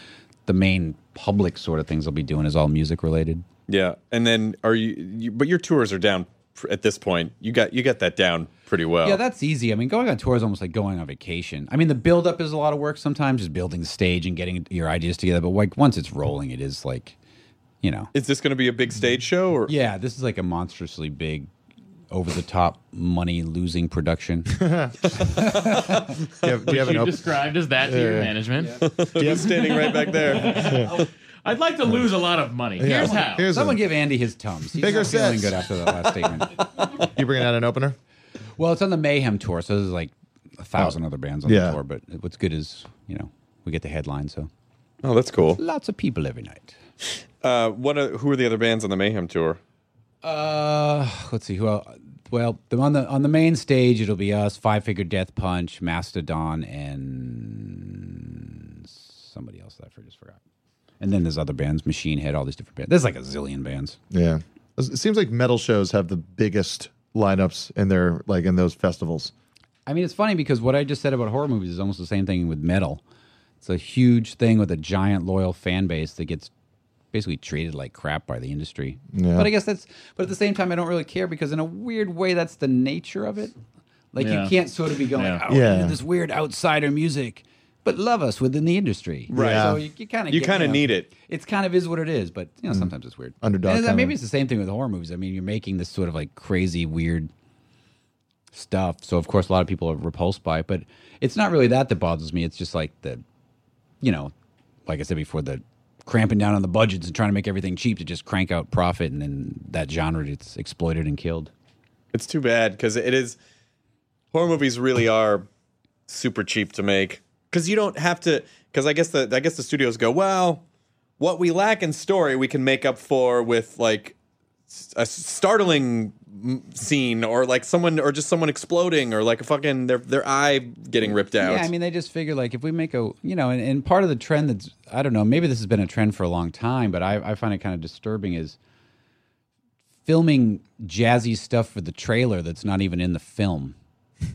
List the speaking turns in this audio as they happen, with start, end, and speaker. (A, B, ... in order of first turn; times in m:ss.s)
0:00.4-0:03.4 A
0:03.7-0:09.2 B
0:09.0-0:17.2 A
0:17.8-0:18.1 A
0:18.1-0:19.7 B
0:19.7-0:21.5 A
0:22.1-0:26.1 A
0:24.5-0:25.0 C
0:26.4-0:28.3 C
0:26.7-0:33.5 D
0:28.6-0:28.8 A
0:28.8-0:30.6 B
0:29.2-0:29.7 C
0:30.5-0:30.9 C
0:32.8-0:33.8 C
0:32.8-0:36.6 A
0:34.7-0:35.6 C
0:37.0-0:38.0 C
0:38.6-0:44.5 A
0:40.8-0:41.8 C
0:45.0-0:45.6 B
0:45.6-0:46.8 A
0:47.4-0:49.6 B
0:50.2-1:00.4 A
1:01.0-1:04.0 A
1:04.1-1:09.3 C
1:09.8-1:13.0 A
1:13.6-1:16.5 A
1:17.1-1:23.5 A
1:19.1-1:19.5 C
1:24.1-1:37.3 A
1:24.2-1:24.5 D
1:25.1-1:25.4 D
1:25.5-1:26.0 C
1:29.3-1:31.1 B
1:29.3-1:29.8 C
1:33.4-1:34.1 C
1:38.5-1:43.2 A
1:44.0-1:44.3 A
1:44.8-1:51.5 A
1:52.1-1:53.4 B
1:54.3-1:55.4 B
1:56.1-2:00.6 B
2:01.2-2:04.1 B
2:04.7-2:11.7 B
2:11.4-2:18.6 A
2:20.0-2:23.7 A